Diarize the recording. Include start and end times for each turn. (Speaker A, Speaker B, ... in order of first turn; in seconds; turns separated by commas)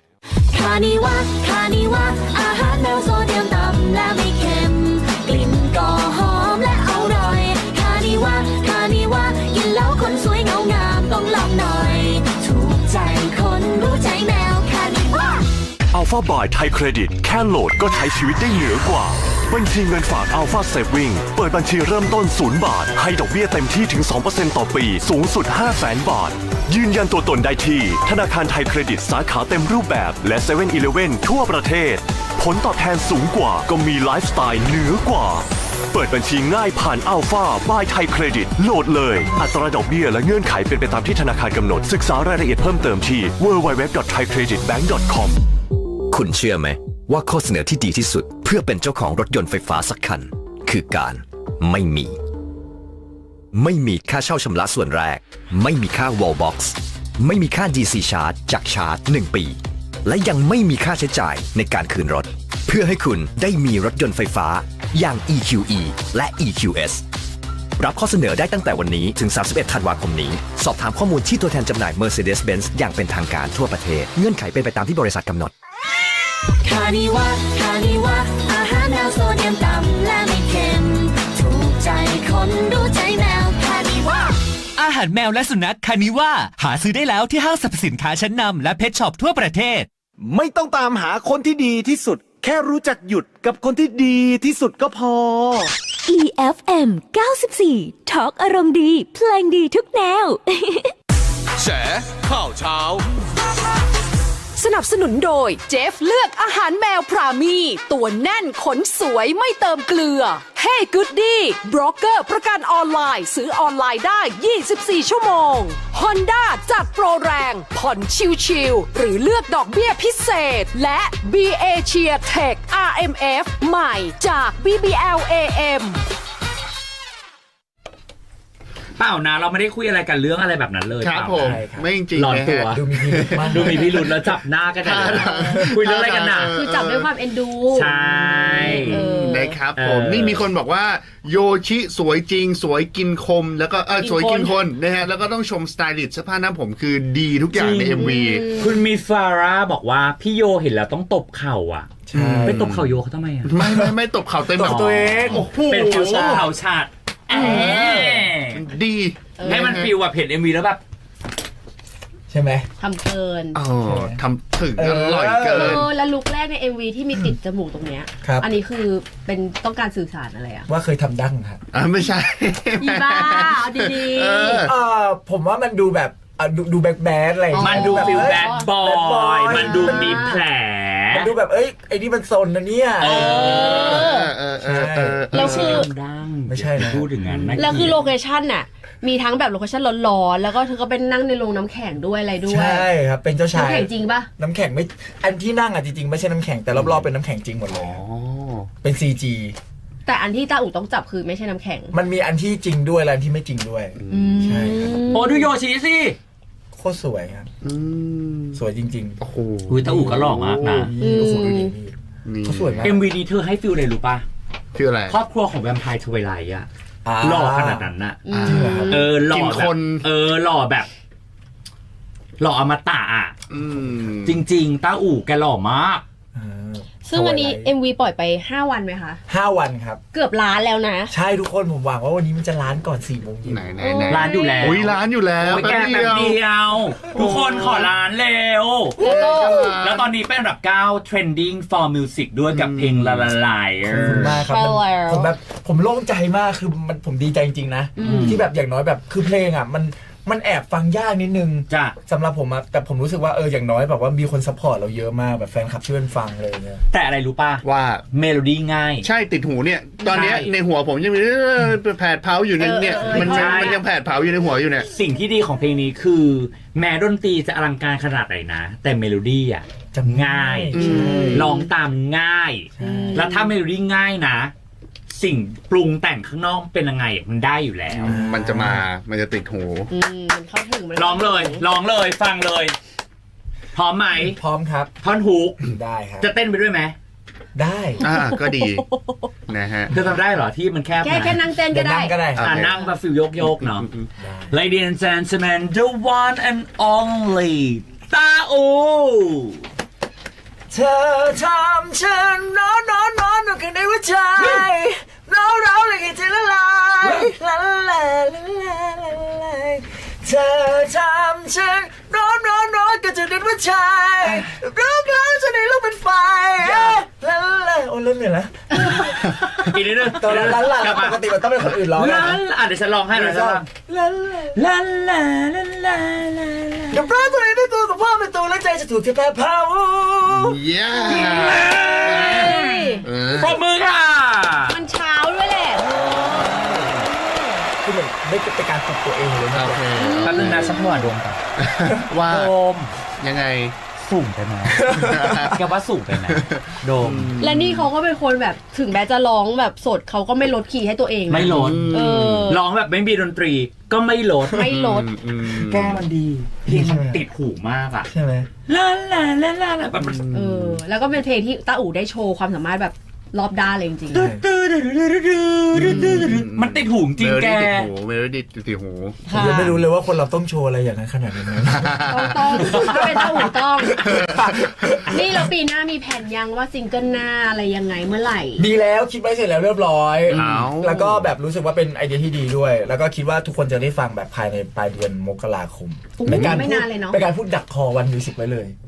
Speaker A: 0.5-15.4, Speaker B: 15.9-45.5, Speaker C: 46.1-52.1, Speaker C: 53.5-67.0, Speaker C: 67.8-75.5, Speaker A: 76.6-84.3, Speaker D: 84.8-89.9, Speaker E: 90.2-95.7, Speaker A: 96.1-100.9, Speaker B: 101.6-103.0, Speaker F: 104.6-126.0, Speaker G: 129.0-131.6, Speaker H: 131.0-134.2, Speaker I: 131.3-131.9, Speaker G: 132.2-132.8, Speaker I: 132.7-134.1, Speaker G: 133.4-136.5, Speaker H: 134.8-137.1, Speaker J: 135.0-135.7, Speaker J: 136.5-139.6, Speaker G: 137.7-139.1, Speaker H: 138.7-148.7, Speaker G: 139.7-140.5, Speaker J: 143.9-144.5, Speaker G: 147.5-153.6, Speaker J: 148.0-148.8, Speaker I: 152.1-152.6, Speaker H: 152.1-152.9, Speaker H: 153.4-156.5, Speaker I: 153.6-153.9, Speaker I: 154.5-156.4, Speaker G: 154.6-158.6, Speaker J: 157.3-157.9, Speaker H: 157.5-159.9, Speaker J: 159.4-159.9, Speaker G: 159.4-160.8, Speaker I: 162.3-162.7, Speaker J: 162.8-163.6, Speaker H: 163.5-165.9, Speaker I: 163.8-164.2, Speaker I: 164.8-165.9, Speaker J: 165.5-170.7, Speaker I: 168.2-168.5, Speaker I: 170.7-171.6, Speaker H: 171.7-174.7, Speaker J: 172.8-174.7, Speaker I: 174.6-180.3, Speaker J: 177.5-178.7, Speaker G: 177.6-181.3, Speaker J: 179.5-180.4, Speaker I: 181.1-183.9, Speaker G: 183.0-184.1, Speaker J: 183.0-184.3, Speaker H: 183.5-185.9, Speaker I: 184.6-185.2, Speaker G: 185.3-188.0, Speaker J: 185.3-185.9, Speaker I: 186.5-187.1, Speaker H: 187.3-188.0, Speaker J: 187.6-192.9, Speaker I: 192.4-198.0, Speaker J: 193.5-194.3, Speaker H: 196.7-197.1, Speaker H: 197.7-198.7, Speaker I: 198.8-199.6, Speaker J: 200.1-201.9, Speaker I: 201.9-205.1, Speaker H: 204.0-204.7, Speaker J: 204.1-205.5, Speaker G: 205.1-206.2, Speaker I: 206.7-207.5, Speaker H: 207.6-208.6, Speaker I: 208.5-209.2, Speaker H: 209.2-210.9, Speaker G: 209.7-210.9, Speaker I: 210.7-213.1, Speaker J: 211.0-211.7, Speaker H: 212.2-213.0, Speaker G: 212.8-214.2, Speaker H: 214.7-215.2, Speaker G: 215.1-216.7, Speaker I: 217.0-217.9, Speaker G: 217.2-218.2, Speaker J: 218.2-219.1, Speaker H: 218.3-220.1, Speaker I: 218.4-219.0, Speaker G: 218.9-220.9, Speaker G: 222.4-223.3, Speaker H: 223.5-224.4, Speaker G: 224.2-226.0, Speaker I: 226.3-227.7, Speaker J: 227.0-229.2, Speaker I: 229.3-230.0, Speaker J: 230.1-231.1, Speaker I: 231.1-233.8, Speaker H: 233.4-236.5, Speaker J: 233.8-234.9, Speaker G: 234.1-244.4, Speaker J: 237.1-237.9, Speaker H: 237.2-237.9, Speaker H: 239.0-240.1, Speaker J: 239.0-239.8, Speaker H: 242.5-243.3, Speaker I: 243.9-256.8, Speaker H: 244.1-244.4, Speaker J: 244.5-245.3, Speaker J: 248.0-248.4, Speaker G: 248.0-248.4, Speaker G: 251.7-251.9, Speaker G: 256.9-259.1, Speaker H: 257.6-258.0, Speaker H: 259.0-264.9, Speaker G: 260.0-260.5, Speaker J: 262.6-263.8, Speaker G: 263.1-263.8, Speaker G: 264.8-270.8, Speaker I: 269.9-271.5, Speaker H: 270.7-271.5, Speaker J: 270.8-271.5, Speaker G: 271.3-274.5, Speaker I: 272.8-273.3, Speaker J: 272.8-273.5, Speaker G: 275.1-278.2, Speaker H: 277.9-279.9, Speaker I: 278.1-278.8, Speaker J: 279.9-281.6, Speaker G: 280.9-282.7, Speaker G: 283.7-284.4, Speaker I: 284.1-284.9, Speaker G: 285.0-285.6, Speaker I: 285.6-286.3, Speaker G: 286.2-286.9, Speaker I: 287.5-288.0, Speaker H: 288.0-288.8, Speaker J: 288.0-289.3, Speaker H: 289.5-289.9, Speaker G: 289.9-291.4, Speaker J: 291.0-292.2, Speaker I: 291.7-292.7, Speaker H: 292.3-292.8, Speaker G: 292.4-293.9, Speaker H: 293.4-294.1, Speaker I: 294.2-294.5, Speaker G: 294.5-299.6, Speaker I: 300.7-322.4, Speaker G: 307.0-307.3, Speaker G: 314.2-314.5, Speaker G: 316.7-317.0, Speaker G: 319.6-323.7, Speaker I: 323.1-324.6, Speaker G: 324.5-327.0, Speaker I: 326.9-330.6, Speaker H: 330.2-333.6, Speaker G: 331.1-334.8, Speaker J: 332.3-333.1, Speaker J: 334.7-337.6, Speaker I: 337.8-340.2, Speaker H: 339.5-340.8, Speaker J: 339.9-341.1, Speaker G: 340.2-341.4, Speaker H: 341.6-342.5, Speaker G: 342.2-342.9, Speaker H: 343.2-343.7, Speaker G: 344.0-347.3, Speaker I: 344.9-345.2, Speaker H: 345.1-345.6, Speaker H: 346.2-347.9, Speaker J: 347.4-352.6, Speaker G: 351.3-354.7, Speaker H: 351.4-352.6, Speaker J: 354.5-355.1, Speaker H: 354.6-356.0, Speaker G: 355.4-358.1, Speaker I: 356.6-357.2, Speaker I: 358.1-358.5, Speaker G: 358.7-360.2, Speaker H: 360.0-360.8, Speaker J: 360.3-364.3, Speaker I: 364.1-364.4, Speaker G: 364.1-367.9, Speaker H: 365.8-369.2, Speaker J: 369.2-369.8, Speaker I: 369.3-375.5, Speaker H: 371.8-372.3, Speaker J: 372.1-374.0, Speaker G: 372.6-373.0, Speaker H: 374.0-374.3, Speaker G: 374.1-374.3, Speaker J: 375.1-378.6, Speaker I: 378.6-388.8, Speaker G: 380.3-380.7, Speaker H: 380.3-381.3, Speaker J: 386.2-387.2, Speaker G: 386.2-386.5